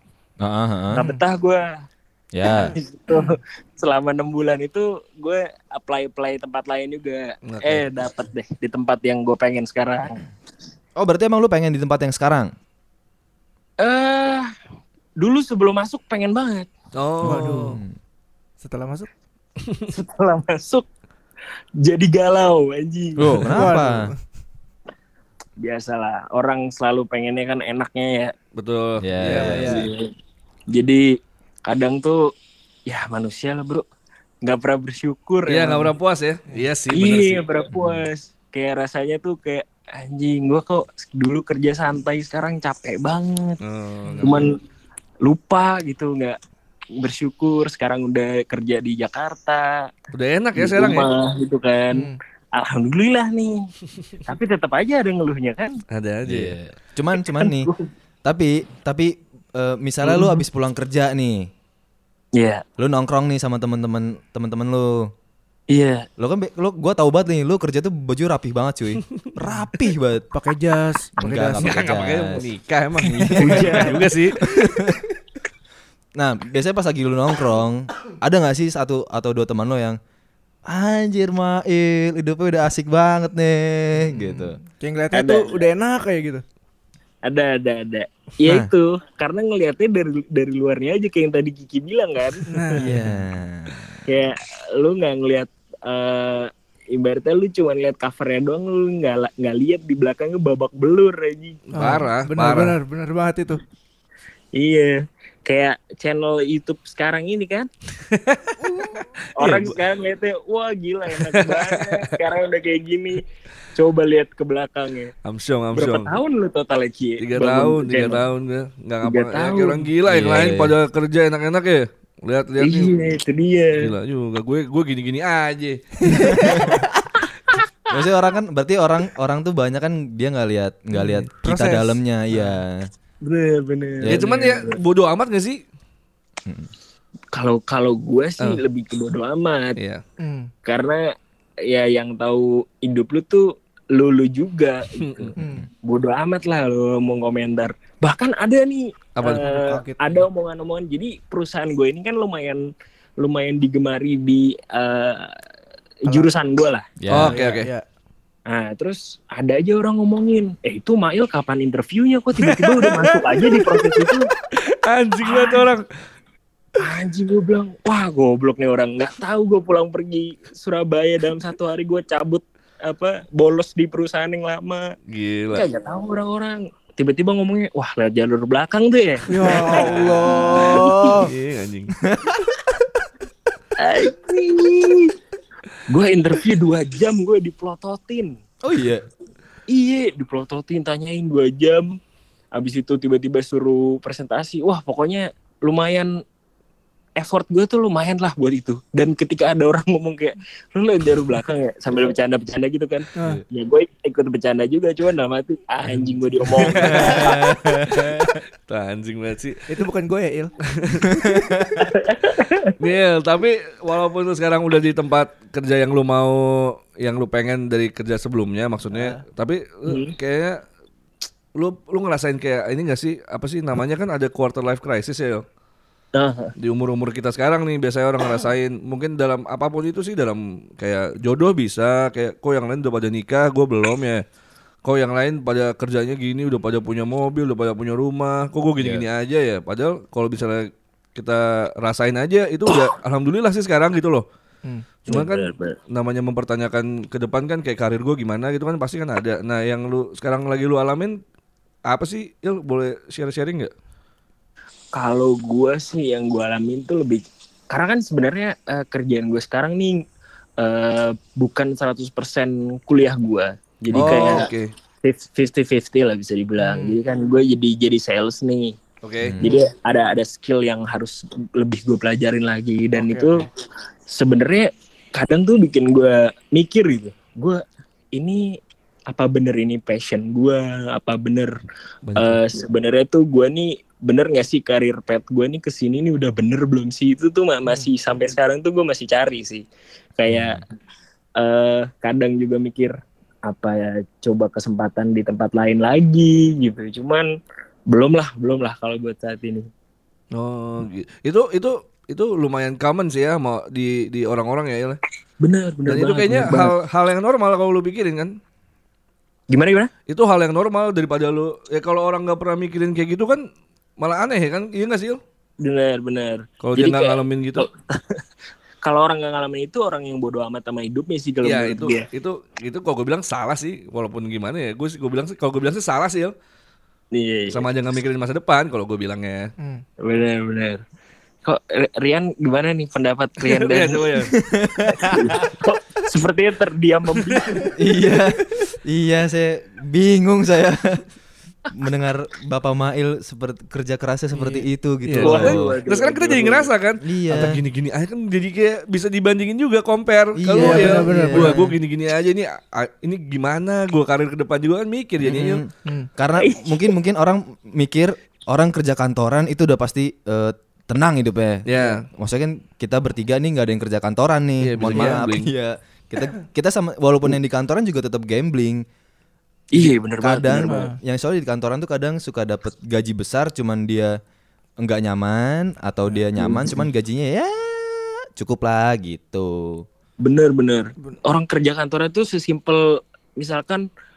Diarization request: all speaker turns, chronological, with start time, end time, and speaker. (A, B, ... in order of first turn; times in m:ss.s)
0:00.4-0:01.0 A
0:00.9-0:01.7 B
0:00.9-0:01.2 C
0:02.3-0:02.7 A
0:02.4-0:10.2 B
0:07.4-0:07.8 D
0:11.0-0:12.5 A
0:13.8-0:14.5 B
0:15.2-0:16.7 B
0:16.9-0:17.8 D
0:17.2-0:17.8 C
0:17.4-0:17.9 A
0:18.6-0:19.1 C
0:19.9-0:20.8 B
0:21.8-0:23.7 B
0:23.2-0:24.1 A
0:23.5-0:24.2 C
0:25.6-0:28.3 B
0:28.6-0:29.8 D
0:29.0-0:29.9 A
0:29.3-0:29.9 C
0:29.5-0:30.1 B
0:30.7-0:32.3 B
0:32.9-0:33.8 B
0:34.4-0:35.9 B
0:35.5-0:37.4 D
0:36.9-0:43.6 B
0:37.7-0:38.0 A
0:43.6-0:44.4 D
0:44.0-0:44.4 C
0:44.2-0:44.6 B
0:45.2-0:46.4 B
0:47.0-0:49.9 B
0:50.1-0:51.1 D
0:50.6-0:53.7 B
0:51.9-0:52.2 C
0:54.2-0:55.8 B
0:55.9-0:56.6 D
0:56.2-0:57.7 A
0:57.2-0:57.8 B
0:58.2-1:01.5 A
1:02.3-1:02.6 B
1:02.8-1:05.1 A
1:05.7-1:06.1 B
1:06.2-1:10.3 A
1:10.3-1:11.8 C
1:11.2-1:12.4 A
1:11.6-1:14.4 D
1:13.0-1:15.0 A
1:13.4-1:13.8 C
1:13.4-1:14.1 B
1:16.2-1:20.0 A
1:20.7-1:24.6 A
1:24.0-1:26.4 C
1:25.1-1:25.6 B
1:27.2-1:32.8 B
1:28.4-1:28.7 A
1:32.5-1:33.1 C
1:32.8-1:34.0 A
1:34.0-1:41.6 B
1:41.7-1:43.6 C
1:41.7-1:42.8 D
1:44.5-1:47.7 B
1:48.1-1:48.5 D
1:49.4-1:49.8 D
1:49.4-1:55.1 B
1:51.1-1:52.1 D
1:55.2-1:56.1 D
1:55.7-1:58.2 B
1:57.2-2:03.0 D
1:59.0-1:59.9 B
2:00.0-2:00.8 A
2:02.6-2:03.9 B
2:03.8-2:06.0 D
2:06.0-2:06.8 C
2:06.1-2:06.8 A
2:07.9-2:12.9 A
2:11.0-2:12.6 C
2:13.2-2:14.8 B
2:14.1-2:15.6 D
2:16.4-2:16.7 A
2:17.3-2:19.8 B
2:19.8-2:20.0 D
2:20.2-2:20.5 C
2:20.6-2:21.1 B
2:21.6-2:32.7 B
2:24.9-2:25.3 D
2:25.4-2:25.6 A
2:25.4-2:25.7 C
2:29.2-2:29.4 D
2:29.2-2:30.2 C
2:33.2-2:35.3 B
2:36.0-2:36.8 B
2:37.0-2:37.4 A
2:37.1-2:37.7 D
2:37.2-2:37.8 C
2:38.5-2:44.3 B
2:42.4-2:45.8 D
2:45.2-2:45.6 B
2:46.8-2:54.9 B
2:55.1-2:55.6 D
2:55.5-3:01.2 B
2:59.3-3:01.3 C
2:59.6-3:01.9 D
3:02.0-3:02.6 A
3:03.8-3:05.1 B
3:05.9-3:08.4 B
3:08.6-3:09.0 A
3:09.7-3:12.0 B
3:12.5-3:16.2 B
3:17.2-3:27.6 B
3:26.6-3:29.7 D
3:26.6-3:28.4 A
3:29.7-3:30.5 C
3:30.7-3:31.1 D
3:31.1-3:31.9 A
3:31.8-3:32.7 B
3:32.8-3:40.6 D
3:38.9-3:39.2 C
3:39.9-3:40.1 B
3:41.6-3:45.4 D
3:46.1-3:46.5 B
3:46.6-3:54.2 D
3:54.8-4:04.2 D
3:58.8-3:59.0 A
4:05.0-4:11.2 D
4:05.1-4:05.8 B
4:11.9-4:13.7 D
4:14.9-4:20.0 B
4:20.6-4:24.5 B
4:23.9-4:24.4 A
4:23.9-4:24.7 D
4:25.0-4:28.8 B
4:26.6-4:27.0 C
4:29.0-4:29.4 D
4:29.2-4:29.5 A
4:29.4-4:33.5 B
4:33.0-4:33.4 C
4:34.1-4:37.6 B
4:38.1-4:41.5 B
4:42.1-4:42.4 A
4:42.1-4:49.6 B
4:50.2-4:50.6 B
4:50.3-4:50.6 A
4:51.4-4:57.3 B
4:57.9-4:59.7 B
5:00.3-5:05.0 D
5:05.4-5:06.7 B
5:05.9-5:08.4 D
5:09.5-5:09.9 B
5:10.1-5:13.4 D
5:14.0-5:15.2 D
5:15.6-5:18.2 B
5:16.6-5:17.7 D
5:18.8-5:22.0 B
5:21.4-5:26.3 D
5:27.1-5:27.7 B
5:27.5-5:29.5 D
5:29.6-5:29.8 C
5:30.0-5:30.8 B
5:31.4-5:34.3 B
5:33.4-5:34.3 D
5:34.3-5:35.5 A
5:34.9-5:37.7 B
5:37.2-5:37.4 D
5:37.8-5:41.0 A
5:41.7-5:45.8 A
5:44.3-5:44.6 C
5:45.0-5:55.6 D
5:45.2-5:46.7 B
5:47.0-5:47.6 A
5:50.4-5:51.8 A
5:50.5-5:51.6 C
5:55.2-6:08.8 A
5:56.4-5:56.9 B
6:01.7-6:02.0 D
6:04.6-6:05.5 D
6:04.9-6:05.2 C
6:09.7-6:10.8 B
6:10.2-6:14.2 A
6:10.7-6:11.0 C
6:14.8-6:19.8 A
6:16.4-6:16.7 B
6:20.2-6:23.9 B